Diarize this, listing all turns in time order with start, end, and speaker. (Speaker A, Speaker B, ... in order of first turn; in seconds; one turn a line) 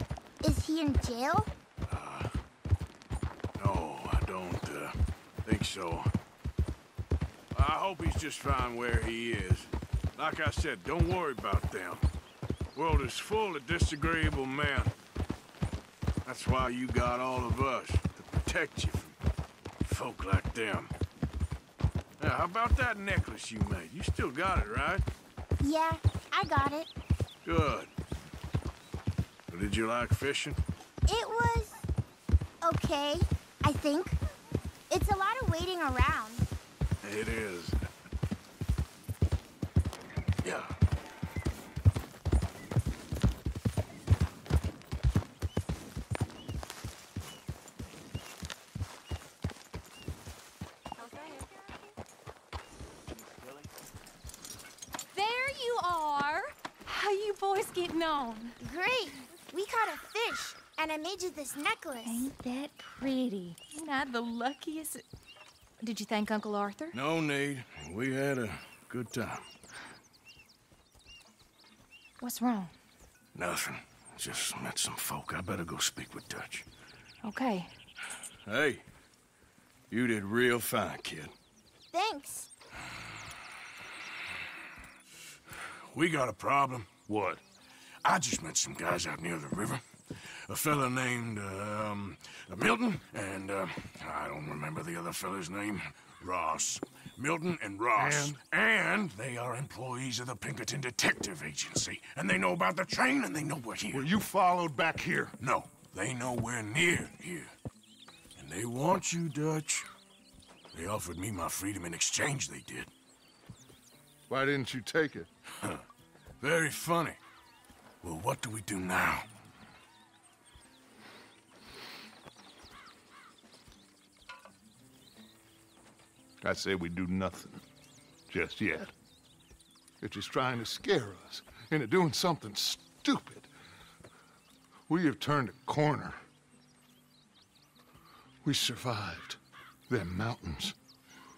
Speaker A: 0.4-1.5
Speaker B: 1.9-2.3
Speaker B: 3.6-6.1
Speaker B: 7.5-12.0
Speaker B: 12.7-14.9
Speaker B: 16.2-19.2
Speaker B: 19.8-20.9
Speaker B: 22.2-25.0
Speaker A: 25.6-26.9
Speaker B: 27.4-27.9
Speaker B: 29.5-30.6
Speaker A: 31.1-31.9
Speaker A: 32.6-34.2
Speaker A: 34.9-36.5
Speaker B: 37.0-37.8
Speaker B: 40.4-40.7
Speaker C: 51.0-51.7
Speaker C: 55.1-58.6
Speaker A: 58.6-62.3
Speaker C: 62.0-65.0
Speaker C: 65.8-67.0
Speaker B: 66.9-69.4
Speaker C: 72.2-72.7
Speaker B: 73.3-76.7
Speaker C: 77.2-77.7
Speaker B: 78.5-78.8
Speaker B: 79.9-81.3
Speaker A: 81.9-82.5
Speaker B: 85.9-86.9
Speaker D: 87.1-87.4
Speaker B: 88.0-89.8
Speaker B: 90.5-104.1
Speaker D: 98.0-98.4
Speaker D: 103.9-105.3
Speaker B: 105.4-107.5
Speaker B: 108.4-109.9
Speaker B: 110.7-112.9
Speaker D: 114.3-115.3
Speaker B: 116.4-117.2
Speaker B: 118.0-119.2
Speaker D: 126.4-127.6
Speaker D: 128.3-128.9
Speaker D: 130.0-133.5
Speaker D: 134.9-136.2
Speaker D: 138.4-140.8